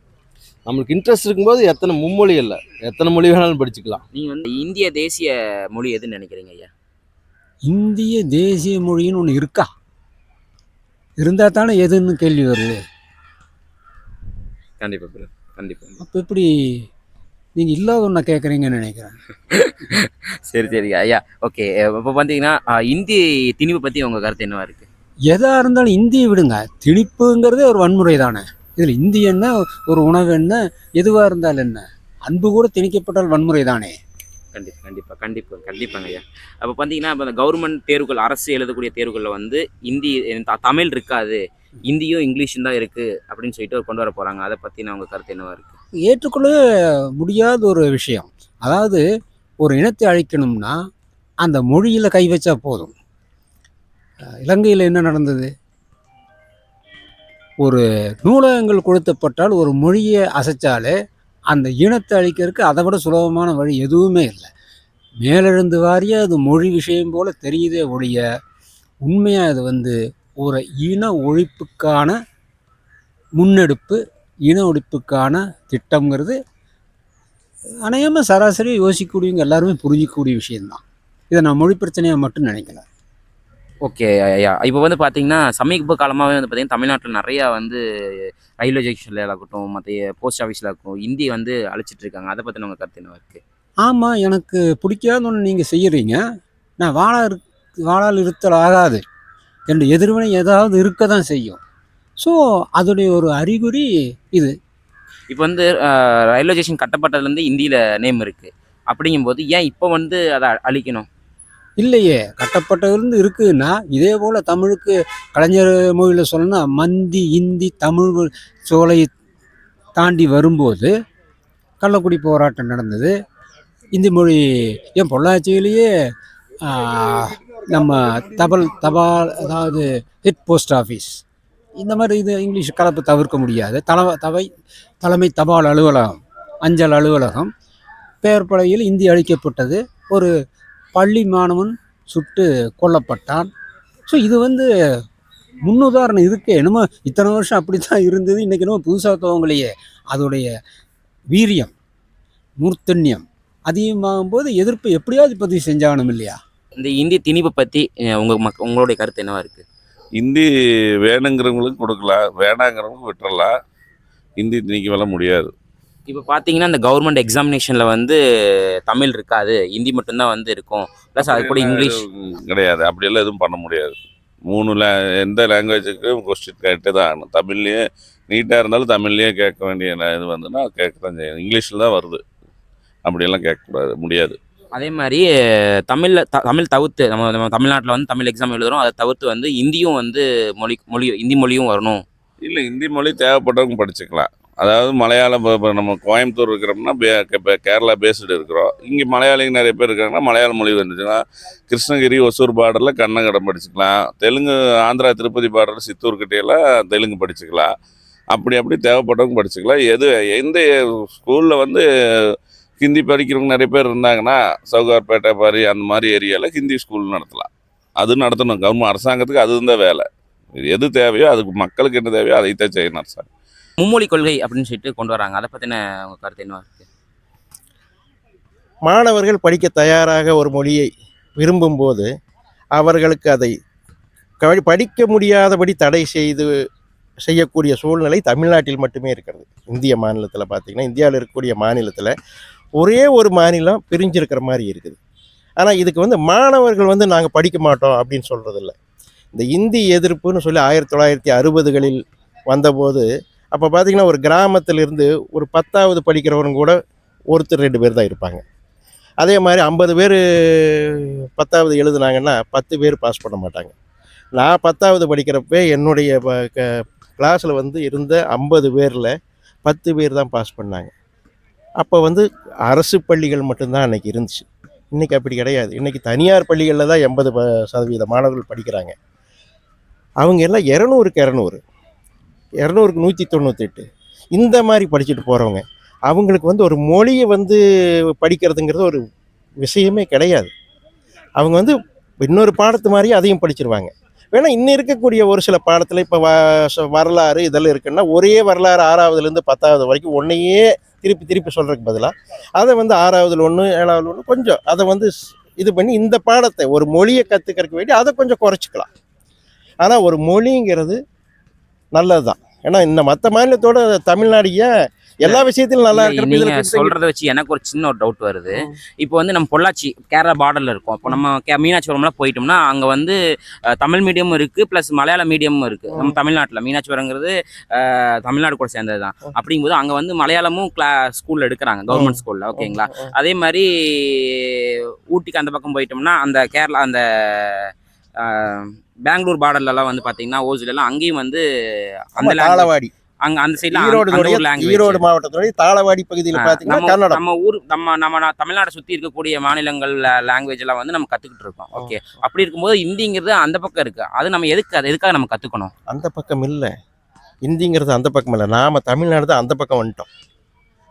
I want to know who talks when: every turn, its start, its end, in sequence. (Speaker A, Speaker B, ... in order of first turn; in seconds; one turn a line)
Speaker A: 0.7-4.0
Speaker B: 4.1-6.7
Speaker C: 7.7-9.7
Speaker C: 11.2-12.8
Speaker B: 14.8-16.0
Speaker C: 16.0-16.5
Speaker C: 17.6-19.1
Speaker B: 19.5-24.9
Speaker C: 25.3-33.9
Speaker B: 34.5-45.8
Speaker C: 46.0-46.5
Speaker C: 47.1-49.0
Speaker C: 49.6-50.8
Speaker C: 51.4-52.9
Speaker C: 54.4-55.5
Speaker C: 57.6-60.9
Speaker C: 61.5-64.5
Speaker C: 65.2-68.2
Speaker C: 69.0-72.2
Speaker C: 73.4-76.3
Speaker C: 77.8-80.8
Speaker C: 81.3-82.8
Speaker B: 83.8-87.8
Speaker B: 88.6-93.4
Speaker C: 93.8-96.2
Speaker C: 96.8-99.0
Speaker C: 99.7-101.6
Speaker C: 102.2-104.5
Speaker B: 105.3-111.1
Speaker C: 111.8-119.1
Speaker C: 120.0-120.9
Speaker C: 121.8-123.1
Speaker C: 124.0-125.9
Speaker C: 126.7-131.2
Speaker C: 131.8-134.4
Speaker C: 135.0-137.5
Speaker C: 138.2-140.3
Speaker C: 140.9-143.5
Speaker C: 144.1-144.7
Speaker C: 145.7-150.5
Speaker C: 151.3-151.7
Speaker C: 152.6-156.4
Speaker B: 156.8-159.6
Speaker D: 160.2-160.5
Speaker D: 161.0-163.5
Speaker D: 164.4-165.5
Speaker B: 166.1-168.2
Speaker B: 168.9-171.9
Speaker D: 171.2-173.9
Speaker D: 174.5-182.2
Speaker D: 183.0-184.4
Speaker B: 184.7-185.2
Speaker B: 185.9-192.0
Speaker D: 192.4-207.7
Speaker D: 208.3-210.7
Speaker D: 211.2-220.0
Speaker D: 220.6-223.3
Speaker B: 223.8-226.8
Speaker E: 228.8-232.1
Speaker E: 232.8-233.5
Speaker E: 234.4-236.4
Speaker E: 237.2-242.1
Speaker E: 242.8-245.0
Speaker E: 245.6-248.7
Speaker E: 249.3-256.8
Speaker E: 257.3-258.4
Speaker E: 259.2-263.7
Speaker E: 264.3-269.1
Speaker E: 269.6-270.9
Speaker E: 271.8-278.9
Speaker E: 280.2-281.6
Speaker E: 282.6-287.6
Speaker E: 288.2-289.0
Speaker E: 289.6-290.5
Speaker E: 291.4-308.9
Speaker E: 309.8-311.0
Speaker E: 311.9-314.7
Speaker E: 315.2-316.9
Speaker B: 315.2-323.1
Speaker B: 323.8-334.4
Speaker E: 331.9-333.1
Speaker B: 335.1-337.6
Speaker B: 338.3-341.4
Speaker B: 342.1-342.7
Speaker E: 342.2-342.9
Speaker B: 343.2-345.0
Speaker E: 343.6-347.2
Speaker B: 346.4-355.7
Speaker E: 355.9-356.7
Speaker E: 357.4-360.1